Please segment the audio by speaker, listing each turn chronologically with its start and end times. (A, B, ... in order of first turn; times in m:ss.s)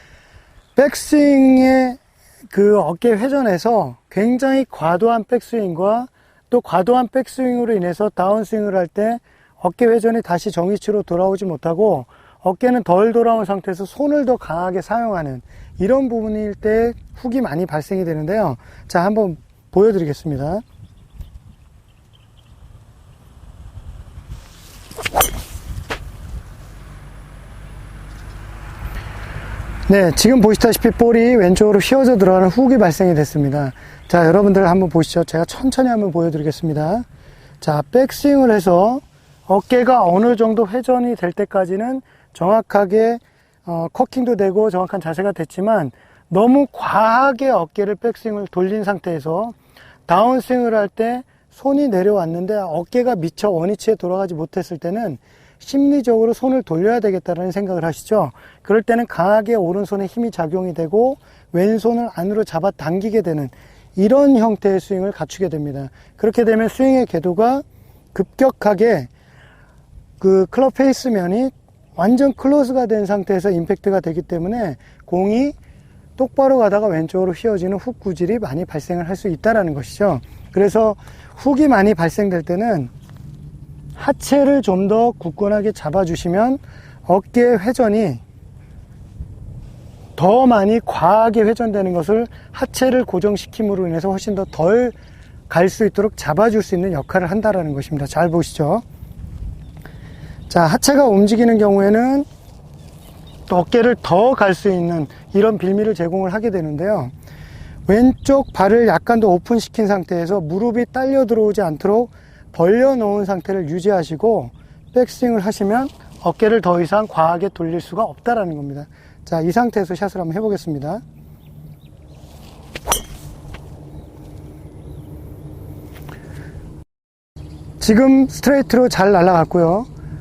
0:00.8-0:02.0 A
0:02.5-0:20.6 A
0:29.9-0:37.0 A
0:37.6-0:49.6 A
0:50.1-1:09.1 A
1:10.2-1:15.6 A
1:16.2-1:22.9 A
1:24.0-1:28.2 A
1:30.2-1:35.0 A
1:35.5-1:38.8 A
1:40.5-1:42.3 A
1:43.5-1:47.1 A
1:47.9-2:01.0 A
2:07.8-2:09.9 A